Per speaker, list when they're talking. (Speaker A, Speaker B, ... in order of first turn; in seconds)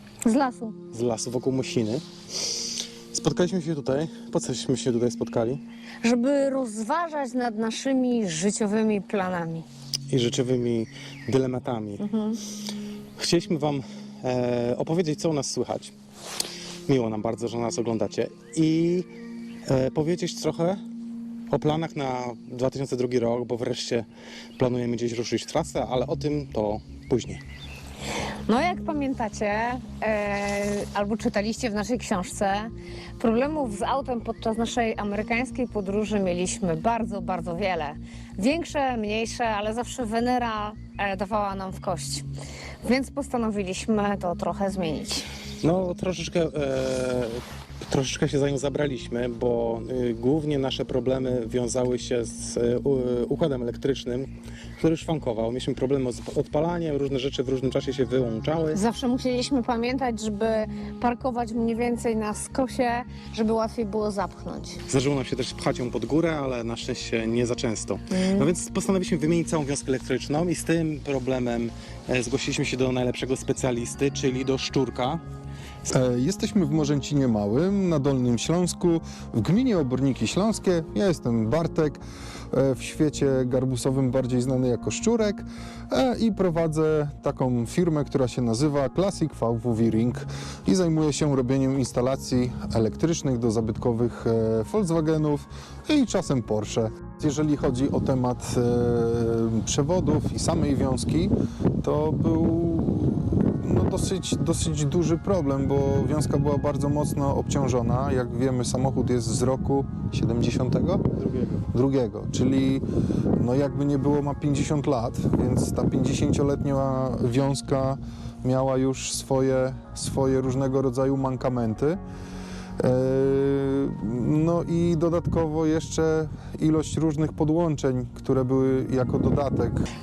Speaker A: 0.2-0.8, 6.0-9.7, 12.0-12.4, 28.5-42.2, 42.8-45.3, 58.7-64.8, 68.1-68.5
Speaker B: 0.9-2.0, 3.1-5.6, 10.1-12.0, 13.2-15.9, 16.9-19.1, 19.7-20.8, 21.5-24.1, 24.6-27.4, 45.6-58.8, 64.9-75.2
Speaker C: 75.9-112.8, 113.4-122.0, 122.8-129.9